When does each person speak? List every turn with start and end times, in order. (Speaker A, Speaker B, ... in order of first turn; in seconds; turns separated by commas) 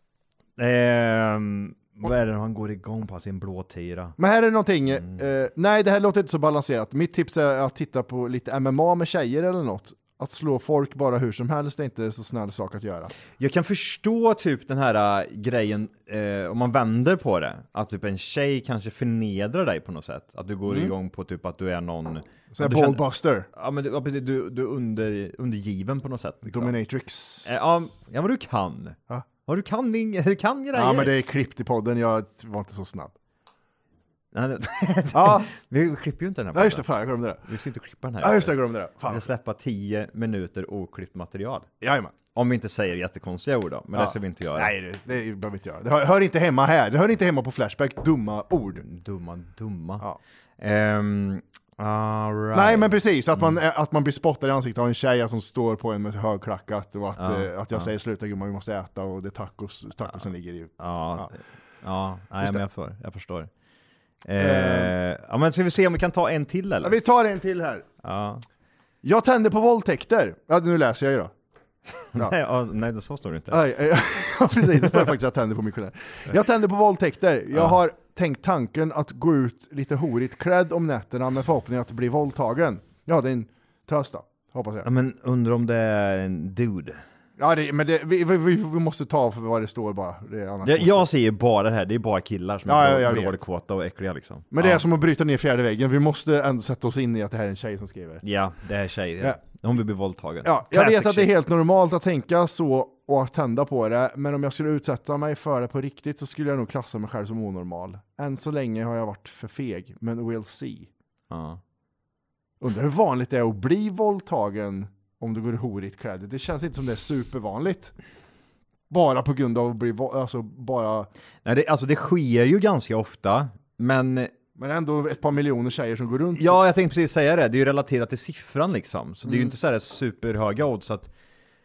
Speaker A: 0.6-4.2, Speaker B: 4.2-13.1, Speaker A: 13.4-26.8, Speaker B: 20.6-20.9, Speaker B: 22.5-23.5, Speaker B: 26.4-27.6, Speaker A: 27.4-31.1, Speaker B: 30.7-33.1, Speaker A: 34.3-36.9, Speaker B: 35.1-35.5, Speaker B: 36.5-37.4, Speaker A: 37.4-41.7, Speaker B: 38.2-39.3, Speaker B: 41.8-42.1, Speaker A: 42.3-44.7, Speaker B: 43.9-48.8, Speaker A: 48.8-50.0, Speaker A: 50.6-53.5, Speaker B: 52.5-61.3, Speaker A: 57.1-57.9, Speaker A: 60.8-63.5, Speaker A: 64.2-67.0, Speaker B: 64.4-64.9, Speaker B: 66.8-67.8, Speaker A: 68.0-68.4, Speaker B: 69.0-71.3, Speaker A: 72.1-73.6, Speaker B: 73.5-84.9, Speaker A: 77.5-77.8, Speaker A: 84.8-87.0, Speaker B: 87.4-91.1, Speaker A: 90.6-94.8, Speaker B: 92.7-93.4, Speaker B: 94.5-98.2, Speaker A: 98.2-101.3, Speaker B: 100.4-110.9, Speaker A: 111.3-111.6, Speaker B: 112.6-117.9, Speaker B: 118.9-121.1, Speaker A: 121.4-124.3, Speaker B: 124.5-126.6, Speaker A: 126.3-131.1